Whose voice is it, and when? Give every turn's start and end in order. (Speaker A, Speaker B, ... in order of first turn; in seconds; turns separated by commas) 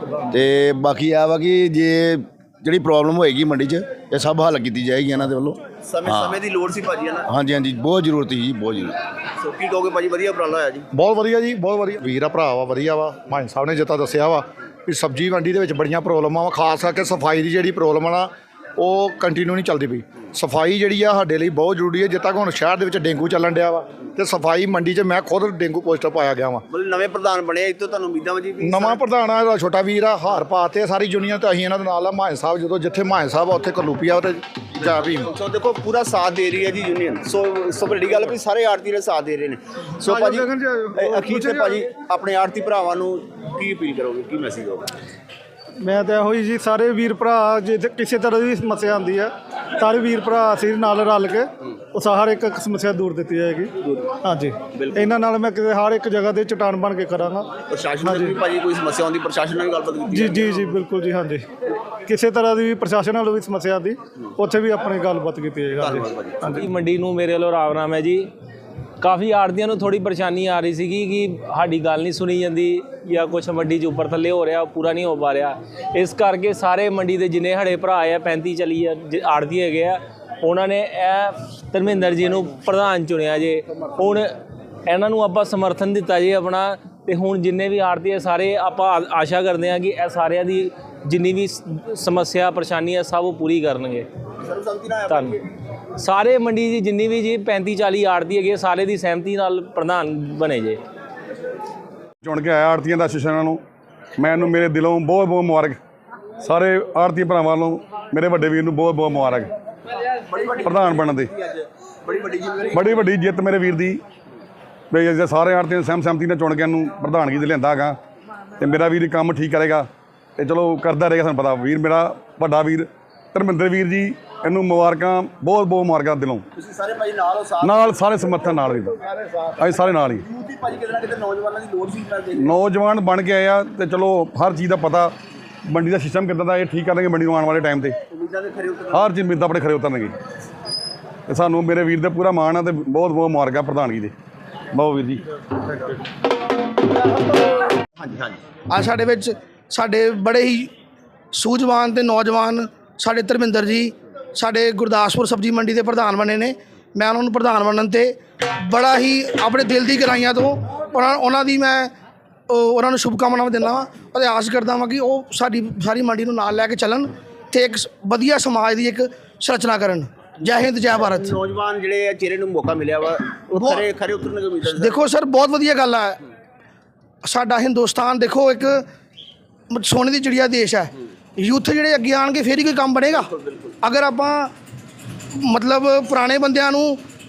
Speaker A: 0.3-6.4, Speaker B: 5.9-7.3, Speaker A: 7.3-8.9, Speaker B: 9.4-10.9, Speaker C: 10.9-26.6, Speaker B: 26.7-29.0, Speaker C: 28.6-35.3, Speaker B: 34.8-44.9, Speaker D: 40.0-41.9, Speaker D: 45.8-53.7, Speaker B: 53.8-54.1, Speaker D: 54.2-57.5, Speaker B: 54.7-55.1, Speaker B: 57.7-60.6, Speaker D: 58.0-58.4, Speaker D: 60.1-61.4, Speaker D: 62.1-66.7, Speaker B: 65.8-66.5, Speaker E: 66.5-68.3, Speaker E: 69.0-84.3, Speaker E: 84.9-94.1, Speaker B: 94.4-95.4, Speaker E: 95.1-95.3, Speaker E: 96.0-100.8, Speaker F: 102.2-103.6, Speaker F: 104.2-105.8, Speaker F: 106.4-109.5, Speaker B: 110.2-113.1, Speaker F: 110.6-111.3, Speaker F: 112.7-114.0, Speaker F: 114.9-118.0, Speaker F: 118.6-119.9, Speaker F: 120.4-126.4, Speaker B: 126.5-128.5, Speaker F: 127.6-128.9, Speaker B: 129.2-129.6, Speaker F: 129.6-130.2, Speaker B: 130.1-132.5, Speaker F: 132.4-135.1, Speaker F: 135.7-137.9, Speaker B: 138.1-139.1, Speaker F: 138.9-140.1, Speaker F: 141.3-144.1, Speaker F: 144.7-145.2, Speaker B: 148.0-148.4, Speaker G: 148.7-150.7, Speaker G: 151.3-161.9, Speaker G: 162.5-171.3, Speaker B: 170.9-175.0, Speaker G: 173.5-173.8, Speaker G: 174.7-176.2, Speaker G: 177.2-178.8, Speaker G: 179.7-183.3, Speaker B: 183.1-183.8, Speaker G: 183.8-184.5, Speaker G: 185.4-187.0